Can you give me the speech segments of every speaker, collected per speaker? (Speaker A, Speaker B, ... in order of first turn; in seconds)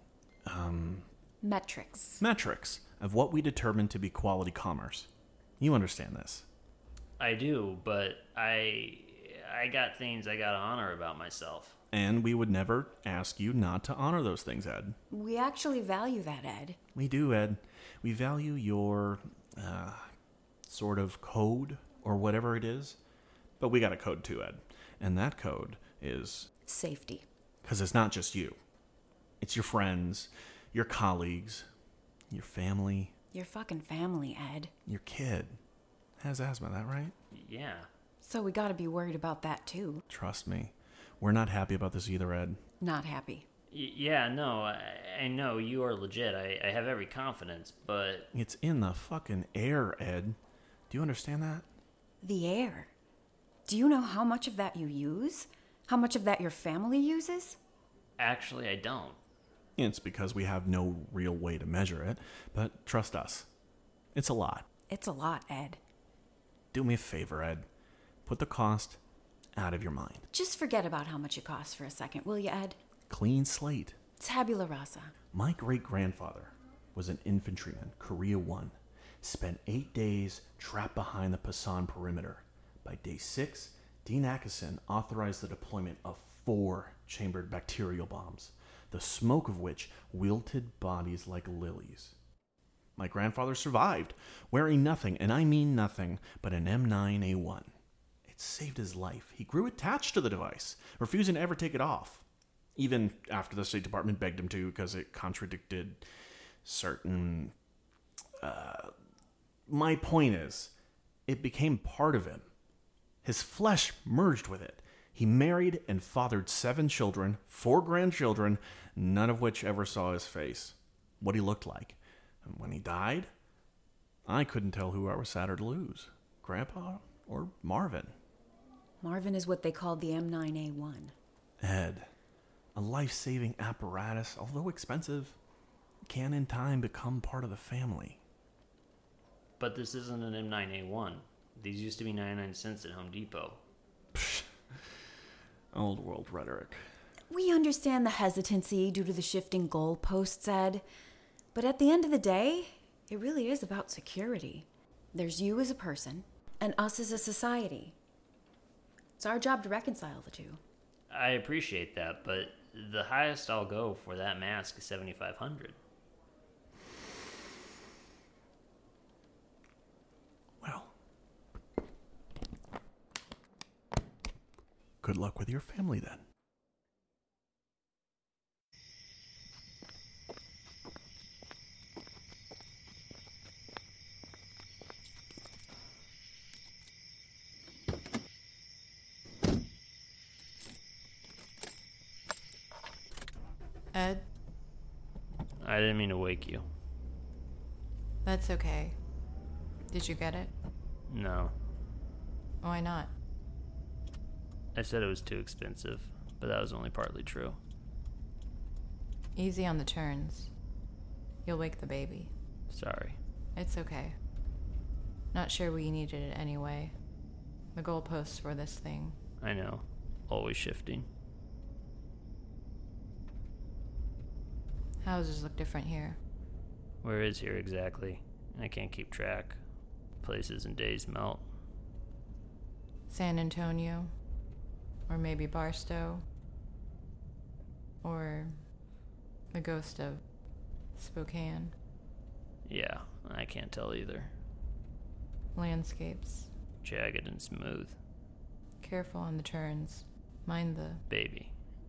Speaker A: 0.5-1.1, 2.2-5.1, 5.6-6.5, 11.9-15.0, 16.9-20.1, 20.7-23.0, 23.6-26.5, 27.6-28.6, 29.4-31.7, 32.3-33.1, 34.9-35.6, 36.2-37.1, 40.1-42.6, 48.3-50.4, 50.9-51.7, 59.8-63.5, 64.1-64.7, 66.7-67.7, 68.2-69.0, 69.5-70.3, 73.1-74.0, 75.3-92.2, 93.0-97.7, 98.3-102.2, 102.8-106.0, 106.6-107.5, 108.4-108.9, 109.7-110.7, 111.3-112.5, 113.2-123.3, 124.2-128.1, 131.6-132.1, 132.7-135.4, 136.1-138.2, 144.1-144.5, 145.7-146.8, 170.6-170.9, 175.0-176.2
Speaker B: 1.4-2.2, 15.1-16.8, 26.6-27.2, 33.3-34.7, 38.2-40.0, 42.8-43.5, 52.2-52.9, 53.6-57.6, 64.9-65.8, 70.3-72.8, 74.2-75.1, 129.0-131.1, 147.3-150.8, 151.5-157.9, 159.2-160.6
Speaker C: 7.2-11.8, 37.3-37.9, 43.7-48.3, 58.2-59.2, 139.6-143.6, 161.1-165.8, 195.6-196.6, 201.1-201.5, 204.7-207.6, 212.7-213.2, 219.4-221.1, 227.0-229.6, 230.2-231.4, 242.7-244.3, 246.8-248.0, 251.1-251.5
Speaker D: 193.9-194.2, 198.2-198.9, 199.9-200.5, 202.6-203.1, 209.3-210.5, 211.4-212.3, 213.5-214.2, 215.3-216.9, 217.7-219.2, 225.0-226.2, 233.1-234.1, 235.1-236.2, 238.0-238.6, 239.5-240.2, 240.9-241.7, 245.5-246.5, 248.8-251.0